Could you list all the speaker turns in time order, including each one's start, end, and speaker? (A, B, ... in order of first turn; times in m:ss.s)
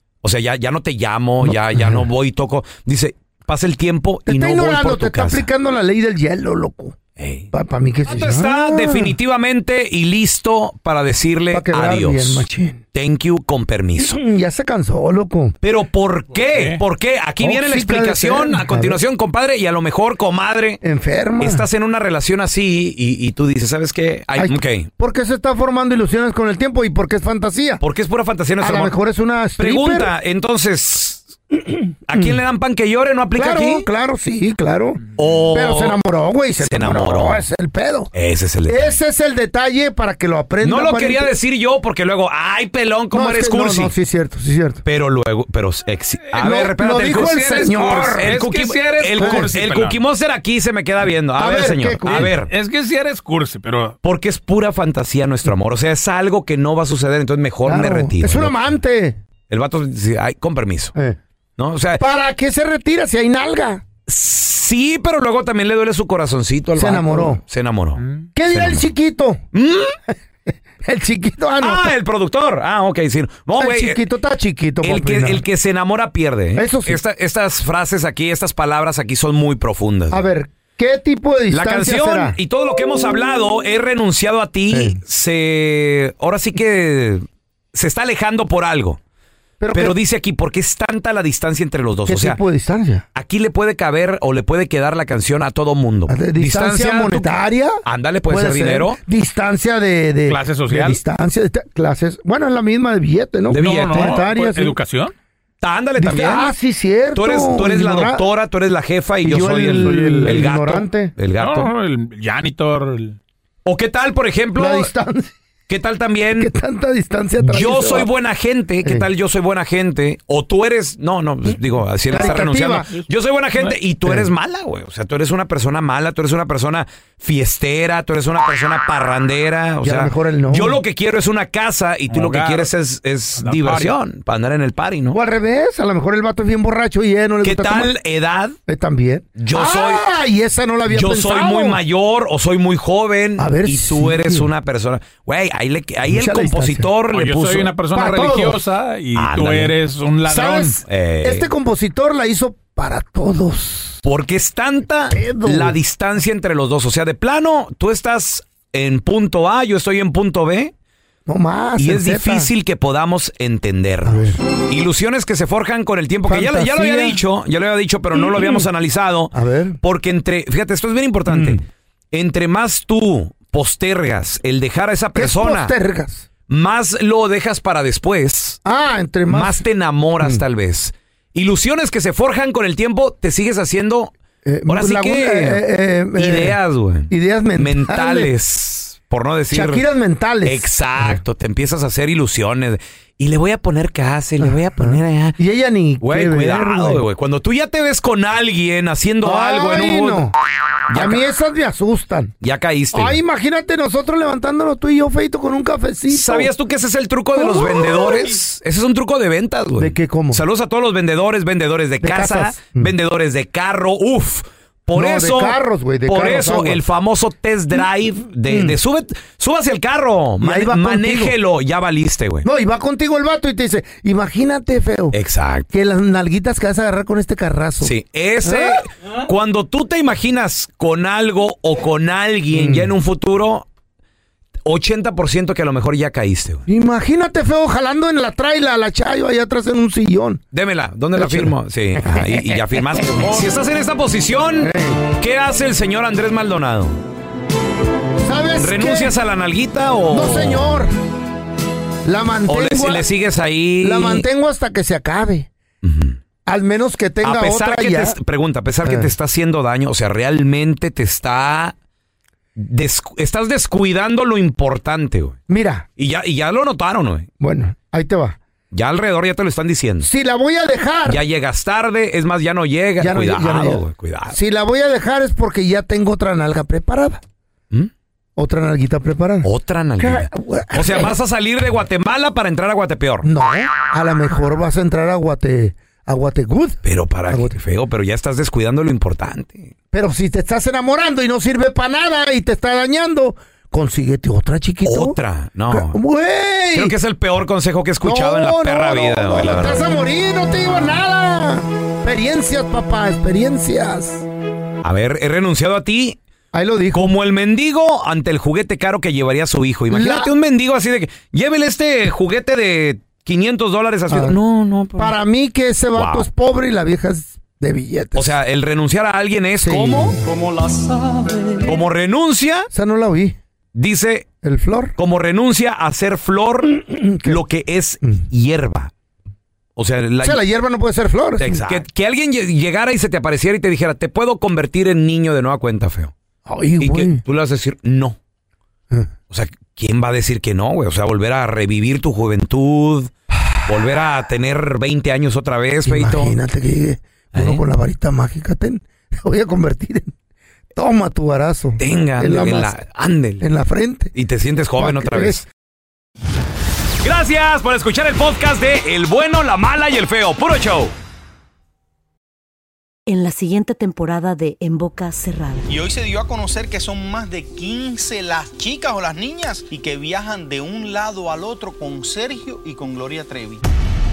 0:00.2-0:05.5 A
0:01.4-0:02.1 B
0:04.3-0:07.0 B
0:07.2-0:07.5 A
0:07.5-0:09.2 B
0:08.0-0:14.2 A
0:11.5-0:12.8 B
0:14.0-0:15.6 B
0:15.6-0:20.8 A
0:16.4-0:16.8 C
0:17.4-0:19.0 B
0:20.8-0:21.6 B
0:21.4-0:24.9 A
0:24.4-0:27.8 B
0:27.8-0:28.9 A
0:28.6-0:30.1 B
0:29.6-0:31.3 A
0:31.7-0:32.4 B
0:32.1-0:33.9 A
0:33.4-0:38.1 B
0:35.2-0:36.0 A
0:36.6-0:37.4 A
0:38.1-0:39.0 A
0:38.7-0:41.3 B
0:40.6-0:43.9 A
0:43.1-0:44.8 B
0:44.8-0:52.5 A
0:46.4-0:48.4 B
0:47.7-0:50.0 C
0:49.2-0:49.5 B
0:51.4-0:52.4 B
0:52.0-0:54.0 C
0:54.0-0:58.5 A
0:57.6-0:59.2 B
0:59.5-1:00.9 A
1:01.6-1:02.0 A
1:02.0-1:03.8 B
1:04.1-1:08.9 A
1:06.8-1:07.4 B
1:08.4-1:09.4 B
1:09.5-1:10.0 A
1:10.8-1:11.9 B
1:11.6-1:14.0 A
1:13.6-1:15.4 B
1:14.8-1:20.2 A
1:16.5-1:17.0 B
1:20.1-1:22.4 B
1:21.5-1:29.0 A
1:24.7-1:25.0 B
1:29.6-1:30.0 B
1:29.7-1:32.4 A
1:32.0-1:33.0 B
1:33.2-1:37.2 A
1:36.1-1:44.8 B
1:37.8-1:39.0 A
1:40.3-1:41.0 C
1:43.5-1:45.1 C
1:43.5-1:44.2 A
1:45.6-1:46.5 A
1:46.0-1:48.2 B
1:47.2-1:51.7 A
1:49.2-1:51.1 B
1:49.8-1:50.5 C
1:51.3-1:53.2 C
1:53.6-1:54.9 A
1:54.5-1:55.3 B
1:55.7-1:56.5 A
1:56.4-1:58.1 B
1:57.4-2:15.2 A
2:02.1-2:02.9 B
2:04.0-2:04.3 B
2:09.8-2:10.8 B
2:12.1-2:12.7 C
2:13.4-2:14.0 C
2:15.1-2:17.9 B
2:17.4-2:18.6 A
2:18.7-2:21.8 B
2:19.4-2:20.0 A
2:20.9-2:27.8 A
2:23.4-2:24.5 B
2:26.1-2:26.9 B
2:27.1-2:30.8 C
2:27.9-2:28.6 B
2:29.1-2:29.8 A
2:30.2-2:34.0 B
2:30.8-2:31.5 A
2:34.0-2:40.7 A
2:35.1-2:35.8 B
2:41.2-2:42.5 B
2:41.8-2:55.7 A
2:44.0-2:44.4 B
2:46.3-2:47.2 B
2:48.1-2:48.7 B
2:49.3-2:49.8 B
2:51.3-2:51.6 B
2:55.2-2:56.3 B
2:56.5-2:58.6 A
2:58.6-2:59.6 B
2:59.3-3:04.1 A
3:04.4-3:06.6 B
3:04.7-3:05.6 A
3:06.2-3:09.8 A
3:07.1-3:08.3 B
3:09.5-3:11.2 B
3:10.4-3:15.4 A
3:14.4-3:17.0 B
3:16.0-3:20.3 A
3:19.2-3:20.3 B
3:20.9-3:21.2 A
3:20.9-3:22.3 B
3:22.4-3:23.2 A
3:22.9-3:26.5 B
3:26.1-3:42.5 A
3:27.3-3:28.2 B
3:29.8-3:30.4 B
3:32.0-3:32.9 B
3:34.9-3:36.8 B
3:38.5-3:38.8 B
3:40.4-3:41.3 B
3:42.4-3:45.2 B
3:45.1-3:45.7 A
3:45.7-3:48.8 B
3:47.8-3:53.7 A
3:52.5-3:52.9 B
3:54.6-3:56.6 A
3:56.7-4:00.4 B
4:00.5-4:07.0 A
4:01.1-4:03.4 B
4:04.6-4:05.0 B
4:08.2-4:09.2 B
4:08.6-4:10.7 A
4:10.1-4:10.9 B
4:12.0-4:13.0 B
4:12.5-4:14.2 A
4:13.8-4:15.5 B
4:15.8-4:16.2 A
4:16.5-4:18.2 B
4:17.2-4:21.8 A
4:18.8-4:19.1 B
4:22.6-4:25.4 A
4:25.5-4:25.9 B
4:26.0-4:27.3 A
4:27.4-4:28.4 B
4:28.7-4:30.1 A
4:30.0-4:31.2 B
4:31.1-4:34.4 A
4:33.0-4:37.2 B
4:38.4-4:41.2 B
4:39.4-4:43.3 A
4:43.2-4:47.6 B
4:46.8-4:49.7 A
4:49.9-4:55.2 B
4:54.8-4:56.0 A
4:55.7-4:57.0 B
4:56.7-4:59.8 A
4:58.0-5:04.2 B
5:04.8-5:06.2 A
5:06.5-5:07.1 B
5:06.9-5:15.2 A
5:09.9-5:10.3 B
5:14.1-5:14.4 B
5:15.0-5:18.3 B
5:16.0-5:16.3 A
5:18.2-5:20.2 A
5:19.6-5:20.2 B
5:20.2-5:21.8 C
5:21.6-5:22.7 A
5:22.7-5:23.4 B
5:23.7-5:24.3 A
5:24.4-5:25.0 B
5:25.0-5:28.9 A
5:26.6-5:27.4 B
5:29.8-5:30.4 A
5:30.2-5:31.8 B
5:31.4-5:36.1 A
5:36.5-5:37.2 B
5:36.8-5:38.2 A
5:39.3-5:46.3 A
5:45.8-5:50.1 B
5:47.3-5:47.6 A
5:50.7-5:52.8 B
5:51.8-5:53.5 A
5:53.4-5:54.1 B
5:54.2-5:55.5 A
5:54.8-5:55.4 B
5:57.0-6:00.9 A
6:03.1-6:05.7 D
6:05.7-6:13.6 E